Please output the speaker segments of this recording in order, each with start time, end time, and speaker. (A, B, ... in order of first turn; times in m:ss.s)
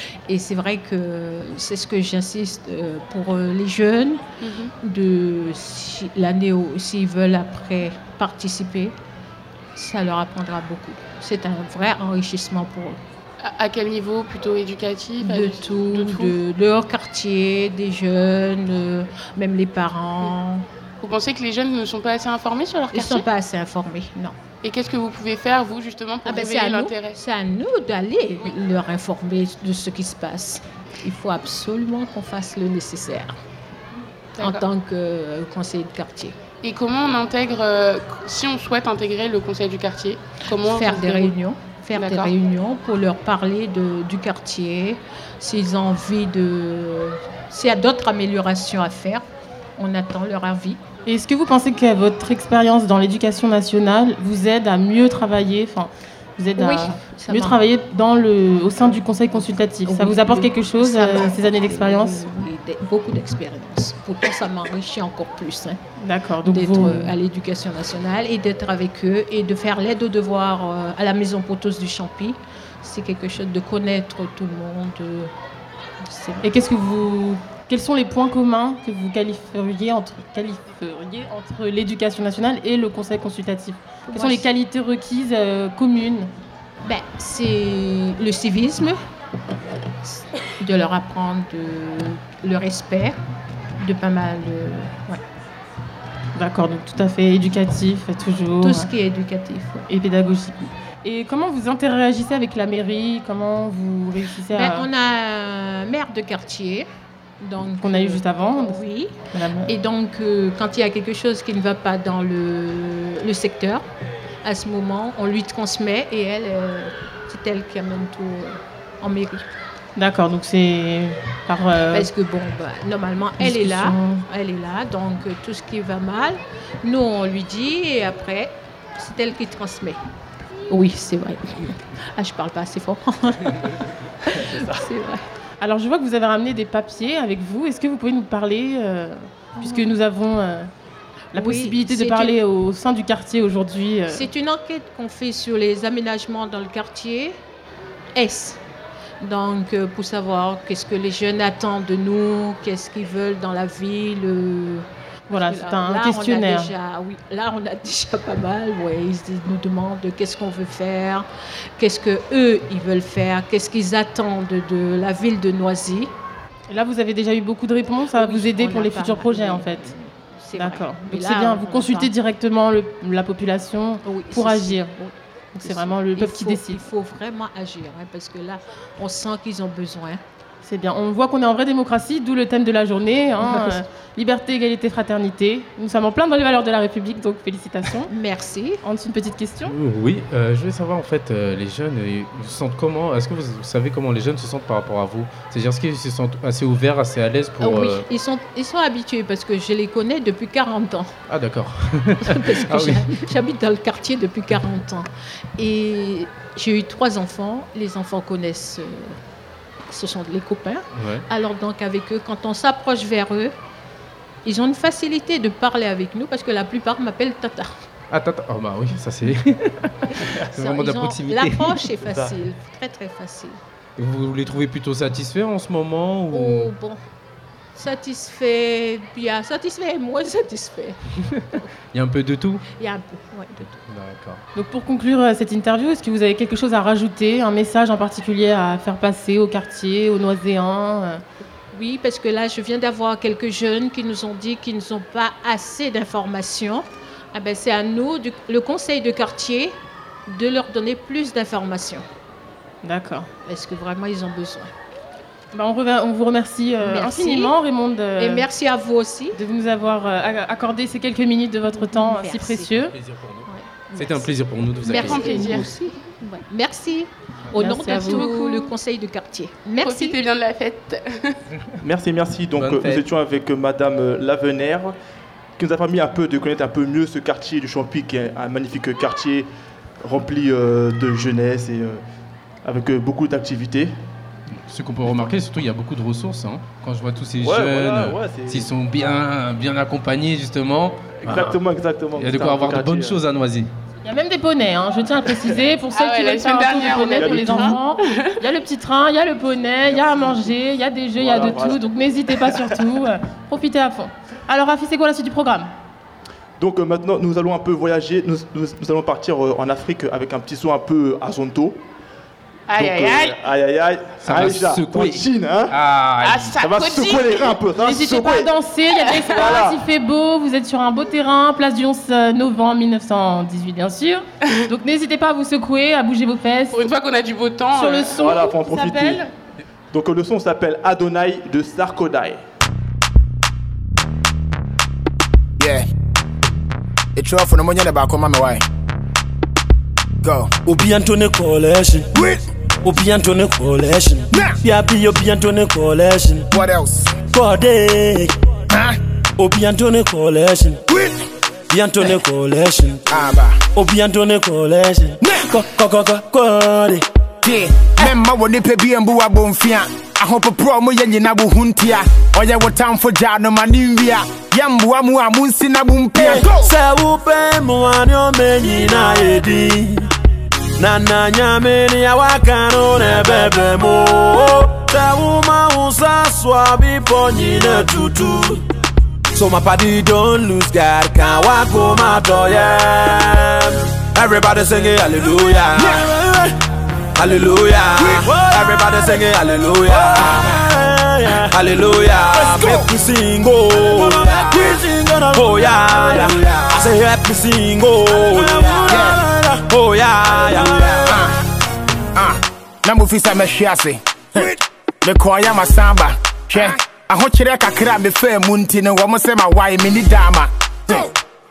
0:00.3-0:04.2 A
0:04.4-0:04.7 B
0:04.8-0:09.0 A
0:09.8-0:13.0 A
0:13.4-0:16.4 B
0:15.2-0:20.6 A
0:21.0-0:23.2 B
0:22.9-0:24.4 A
0:24.6-0:27.2 B
0:26.2-0:33.4 A
0:34.4-0:36.4 A
0:34.4-0:34.6 B
0:36.6-0:41.3 B
0:40.5-0:49.2 A
0:41.9-0:42.3 B
0:49.8-0:50.8 A
0:51.1-1:02.5 C
0:56.6-0:57.6 A
0:58.9-1:05.8 A
1:06.0-1:07.1 C
1:06.4-1:15.3 A
1:16.0-1:16.6 A
1:16.4-1:26.3 C
1:24.1-1:24.5 A
1:26.8-1:29.0 A
1:30.0-1:33.2 A
1:33.8-1:35.2 A
1:36.4-1:38.9 C
1:38.6-1:39.8 A
1:39.9-1:44.9 C
1:44.5-1:46.9 A
1:47.4-1:53.8 A
1:47.8-1:49.7 C
1:54.4-1:59.5 A
2:00.0-2:02.1 C
2:01.9-2:10.0 A
2:03.4-2:04.2 C
2:10.7-2:15.2 A
2:15.6-2:20.7 C
2:19.6-2:19.9 A
2:21.3-2:24.3 C
2:21.4-2:22.4 A
2:24.1-2:27.4 A
2:28.1-2:28.6 A
2:29.2-2:41.2 A
2:35.3-2:36.7 C
2:41.8-2:46.1 A
2:46.7-2:49.9 C
2:48.1-2:52.1 A
2:50.6-2:54.9 C
2:54.0-3:00.2 A
2:55.6-2:56.9 C
3:00.6-3:08.1 C
3:03.4-3:03.8 A
3:08.1-3:08.8 A
3:08.8-3:09.7 C
3:09.6-3:18.0 D
3:17.6-3:21.1 A
3:21.3-3:23.1 D
3:22.2-3:29.2 A
3:29.9-3:33.6 A
3:30.9-3:31.2 D
3:34.4-3:37.8 A
3:38.1-3:41.9 D
3:40.2-3:43.6 A
3:42.1-3:42.4 E
3:44.0-3:46.7 D
3:46.3-3:47.0 A
3:47.8-3:51.0 A
3:51.9-3:52.6 D
3:52.7-3:53.7 A
3:53.8-3:54.4 D
3:54.6-4:01.2 C
4:01.7-4:09.8 A
4:10.3-4:12.1 A
4:12.8-4:13.3 C
4:13.4-4:14.7 A
4:15.5-4:18.5 C
4:16.8-4:17.6 A
4:18.2-4:19.4 A
4:19.3-4:22.9 C
4:21.7-4:22.8 A
4:22.9-4:25.6 D
4:23.5-4:30.2 A
4:24.8-4:25.7 B
4:27.6-4:28.7 C
4:28.0-4:28.4 B
4:29.8-4:31.4 B
4:31.8-4:34.9 E
4:32.6-4:33.0 D
4:35.6-4:39.5 E
4:40.0-4:42.0 E
4:42.6-4:43.9 E
4:44.6-4:51.6 D
4:47.4-4:48.7 E
4:51.2-4:53.2 E
4:52.2-4:53.7 D
4:54.0-5:05.7 C
4:55.9-4:58.2 B
4:57.2-4:57.7 E
5:01.1-5:01.8 E
5:06.6-5:11.8 E
5:12.7-5:13.4 B
5:12.7-5:15.8 E
5:14.2-5:16.6 D
5:16.2-5:17.6 B
5:16.6-5:18.5 E
5:17.7-5:26.8 C
5:19.0-5:19.6 B
5:19.4-5:19.8 E
5:26.7-5:28.2 B
5:27.7-5:29.3 C
5:28.1-5:29.2 E
5:29.9-5:32.4 E
5:35.6-5:35.9 F
5:37.2-5:38.6 F
5:40.2-5:40.6 F
5:40.6-5:42.2 G
5:42.8-5:46.5 G
5:44.3-5:44.6 F
5:46.5-5:47.2 F
5:47.2-5:48.3 G
5:48.7-5:49.0 F
5:49.4-5:50.8 G
5:50.9-5:51.1 F
5:51.7-5:53.0 G
5:53.1-5:53.6 F
5:53.7-5:57.0 G
5:55.2-5:55.6 F
5:57.4-6:06.7 F
6:06.1-6:10.1 G
6:10.8-6:18.6 G
6:19.3-6:26.5 G
6:27.2-6:41.2 G
6:38.9-6:39.2 F
6:41.1-6:41.3 F
6:42.1-6:51.1 F